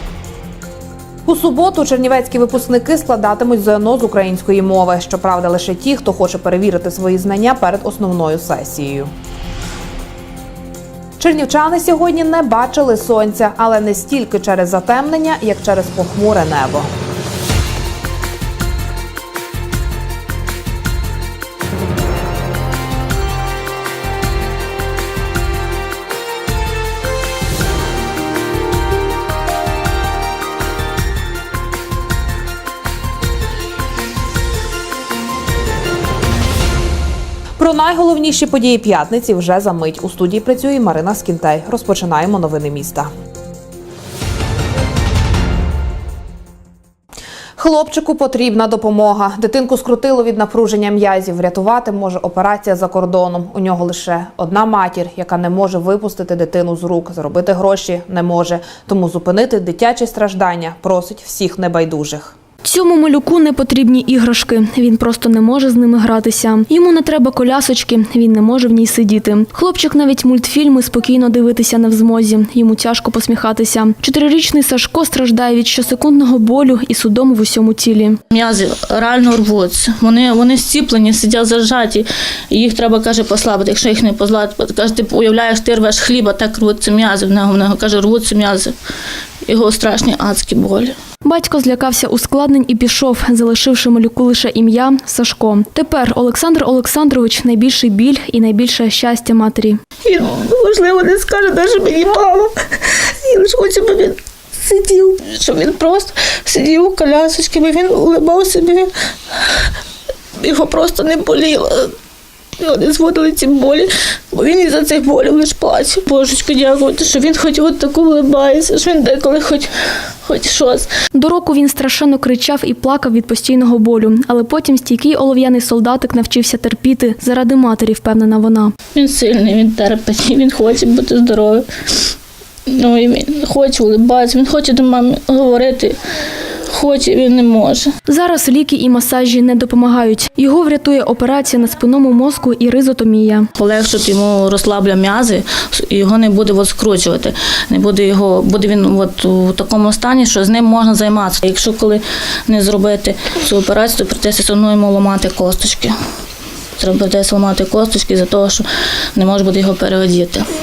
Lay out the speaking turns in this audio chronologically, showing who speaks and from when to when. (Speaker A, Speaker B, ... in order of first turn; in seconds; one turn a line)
Speaker A: 1.3-9.1
Speaker A: 11.2-16.9
Speaker A: 37.6-43.1
Speaker A: 47.6-62.3
Speaker B: 62.6-78.2
Speaker C: 78.3-88.7
Speaker C: 89.5-91.0
Speaker B: 91.2-99.8
Speaker C: 100.0-108.9
Speaker C: 110.4-111.9
Speaker C: 112.6-119.7
Speaker C: 120.2-120.9
Speaker B: 121.1-128.7
Speaker C: 128.9-131.7
Speaker C: 132.7-136.0
Speaker C: 136.7-137.9
Speaker B: 138.1-143.5
Speaker C: 143.6-155.9
Speaker C: 156.8-160.5